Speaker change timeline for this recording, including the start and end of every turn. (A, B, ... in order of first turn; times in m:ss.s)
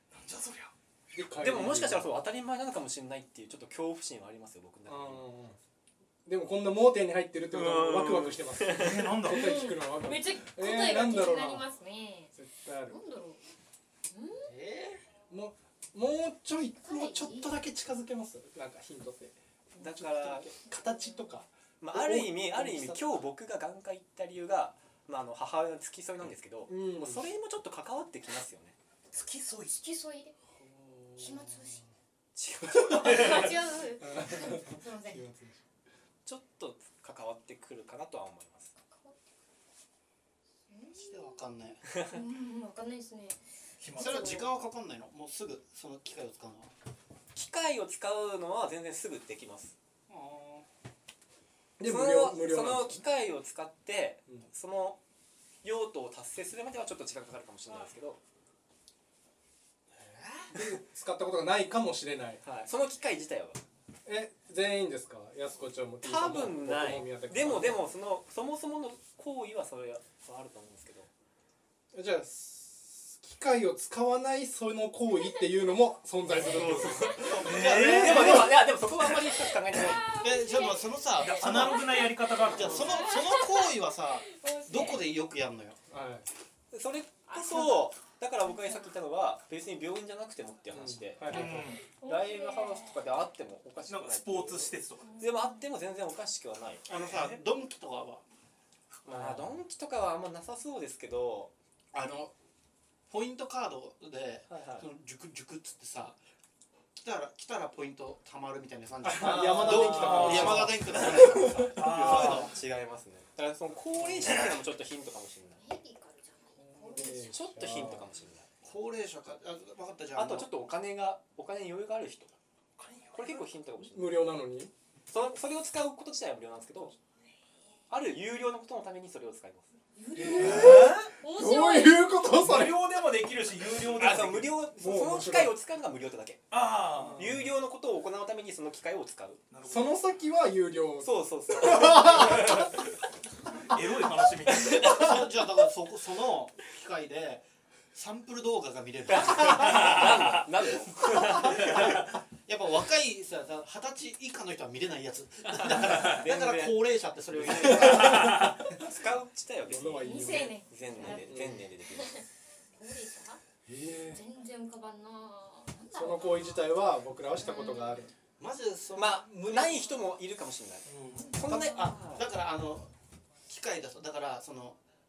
0:00.1-0:00.7 A
0:01.1-0:02.2 B
0:01.4-0:05.3 C
0:04.8-0:05.6 B
0:06.2-0:11.7 B
0:07.5-0:09.1 C
0:08.7-0:09.7 A
0:09.3-0:12.3 D
0:12.3-0:13.0 B
0:12.9-0:13.4 D
0:14.1-0:14.5 D
0:14.5-0:15.0 E
0:15.3-0:23.2 B
0:16.8-0:17.6 D
0:19.8-0:20.5 C
0:20.7-0:21.3 D
0:21.8-0:28.8 C
0:26.7-0:27.3 B
0:29.1-0:29.7 A
0:29.6-0:30.4 D
0:30.6-0:31.8 B
0:31.2-0:31.8 D
0:32.3-0:33.5 C
0:32.7-0:33.2 B
0:33.0-0:35.2 D
0:34.0-0:35.6 B
0:36.2-0:38.7 C
0:38.8-0:39.2 D
0:40.7-0:43.4 D
0:40.9-0:41.9 E
0:43.8-0:44.4 A
0:43.9-0:44.4 D
0:43.9-0:46.7 E
0:47.3-0:49.7 C
0:50.1-0:50.6 E
0:51.8-0:53.0 B
0:51.8-0:55.0 C
0:55.6-0:58.2 C
1:00.5-1:02.4 B
1:02.4-1:03.6 C
1:04.0-1:07.9 B
1:06.0-1:11.1 C
1:11.9-1:18.5 B
1:16.2-1:20.1 C
1:17.2-1:18.5 E
1:17.4-1:19.2 A
1:19.8-1:25.1 D
1:20.1-1:25.8 E
1:21.2-1:23.2 A
1:25.9-1:26.3 B
1:26.7-1:31.5 C
1:27.3-1:27.9 D
1:30.7-1:31.8 B
1:31.3-1:31.8 A
1:32.0-1:33.1 D
1:32.0-1:36.8 C
1:33.8-1:35.2 A
1:35.1-1:35.5 D
1:36.8-1:38.2 E
1:36.9-1:37.4 A
1:39.0-1:39.6 B
1:39.0-1:41.5 C
1:41.9-1:42.3 E
1:43.1-1:46.2 E
1:44.5-1:44.9 C
1:47.0-1:52.4 E
1:49.0-1:52.1 B
1:49.2-1:55.6 C
1:49.6-1:52.5 A
1:54.2-1:54.5 A
1:55.6-1:57.3 D
1:56.6-1:58.1 B
1:57.0-1:58.5 C
1:58.6-2:00.5 E
2:00.1-2:02.3 C
2:02.8-2:03.5 A
2:03.1-2:04.2 C
2:03.9-2:04.7 B
2:05.1-2:06.9 C
2:07.9-2:09.7 C
2:09.9-2:12.2 D
2:10.2-2:11.1 A
2:10.3-2:12.8 B
2:12.3-2:14.6 A
2:14.0-2:16.5 C
2:14.8-2:15.5 B
2:16.5-2:17.5 A
2:16.9-2:17.4 B
2:17.2-2:19.4 C
2:19.5-2:20.0 A
2:19.6-2:22.7 B
2:21.0-2:22.8 C
2:23.7-2:25.1 A
2:24.5-2:25.3 C
2:24.7-2:25.2 B
2:24.8-2:30.4 E
2:29.1-2:32.0 C
2:29.8-2:30.2 A
2:31.1-2:38.6 E
2:35.5-2:42.2 C
2:38.1-2:38.4 A
2:39.7-2:41.6 B
2:40.0-2:43.4 D
2:43.6-2:44.2 B
2:44.0-2:46.7 D
2:45.9-2:48.1 B
2:47.4-2:48.1 D
2:48.4-2:49.9 E
2:48.9-2:52.3 C
2:50.8-2:51.4 A
2:51.3-2:52.9 E
2:53.5-2:54.8 E